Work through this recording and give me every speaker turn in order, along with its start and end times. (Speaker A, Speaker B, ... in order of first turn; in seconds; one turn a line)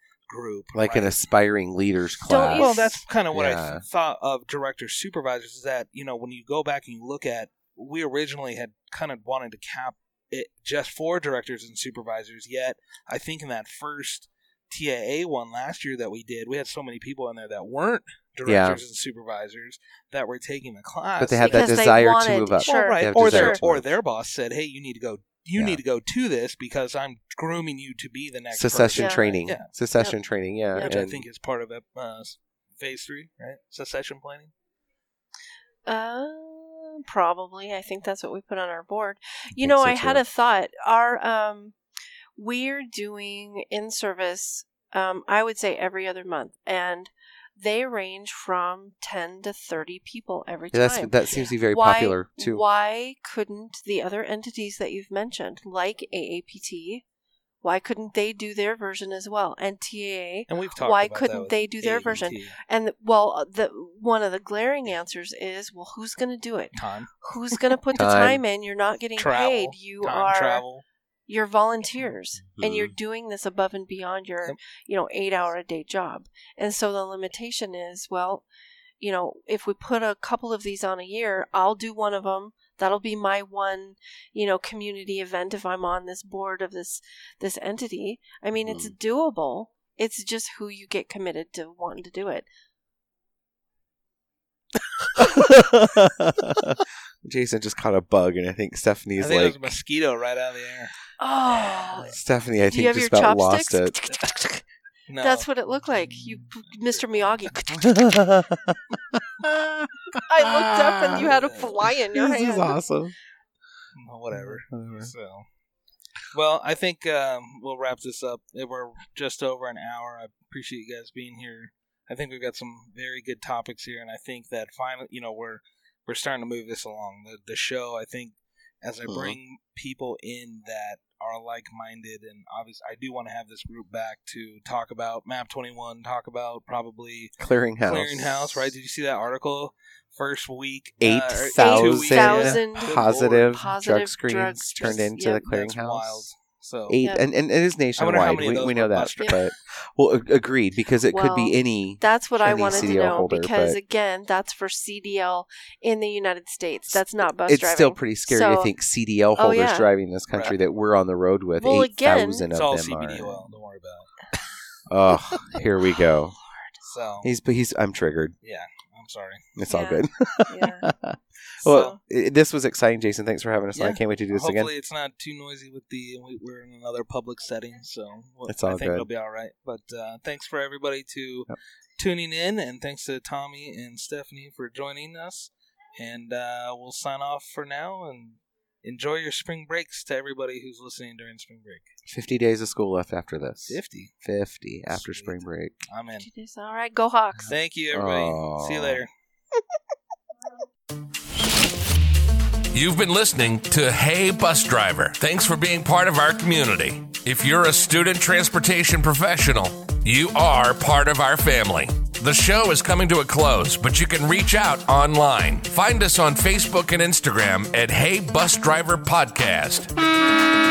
Speaker A: 0.3-1.2
Speaker B: 0.8-2.8
Speaker C: 2.3-3.0
Speaker A: 2.6-21.7
Speaker B: 3.3-3.8
Speaker B: 18.5-18.8
Speaker B: 21.2-23.9
Speaker C: 21.4-23.6
Speaker A: 22.6-29.7
Speaker B: 28.5-31.2
Speaker C: 29.0-29.4
Speaker A: 30.8-34.5
Speaker C: 35.9-41.8
Speaker B: 39.6-40.2
Speaker C: 42.4-57.0
Speaker B: 50.7-52.6
Speaker C: 57.6-70.6
Speaker A: 60.5-62.6
Speaker A: 66.8-67.6
Speaker B: 68.0-68.4
Speaker A: 69.2-70.8
Speaker C: 71.3-78.5
Speaker B: 72.5-72.9
Speaker C: 79.0-92.5
Speaker B: 88.6-88.9
Speaker B: 95.1-99.7
Speaker A: 99.2-100.9
Speaker C: 101.2-102.2
Speaker B: 102.0-104.0
Speaker C: 102.7-104.6
Speaker A: 105.1-105.5
Speaker C: 105.2-107.9
Speaker B: 107.7-111.3
Speaker C: 110.3-112.8
Speaker A: 111.2-111.7
Speaker B: 111.9-113.2
Speaker A: 114.0-115.5
Speaker B: 114.3-115.1
Speaker A: 116.3-143.6
Speaker B: 129.1-129.4
Speaker B: 137.4-138.8
Speaker B: 141.0-146.3
Speaker C: 141.6-145.5
Speaker A: 144.8-147.0
Speaker B: 146.9-153.8
Speaker A: 148.0-149.5
Speaker C: 151.1-158.7
Speaker B: 156.9-163.5
Speaker C: 159.4-159.9
Speaker A: 160.3-160.6
Speaker C: 161.6-162.5
Speaker A: 162.5-164.2
Speaker B: 164.9-166.4
Speaker A: 166.8-167.3
Speaker B: 167.2-168.4
Speaker A: 168.4-169.6
Speaker B: 169.6-174.7
Speaker C: 169.7-170.9
Speaker A: 171.6-172.0
Speaker C: 171.7-172.0
Speaker A: 173.8-191.9
Speaker B: 178.5-179.1
Speaker B: 192.1-195.8
Speaker A: 193.7-194.1
Speaker A: 194.9-196.3
Speaker C: 196.2-197.5
Speaker A: 197.5-199.1
Speaker B: 197.9-199.0
Speaker D: 202.7-219.9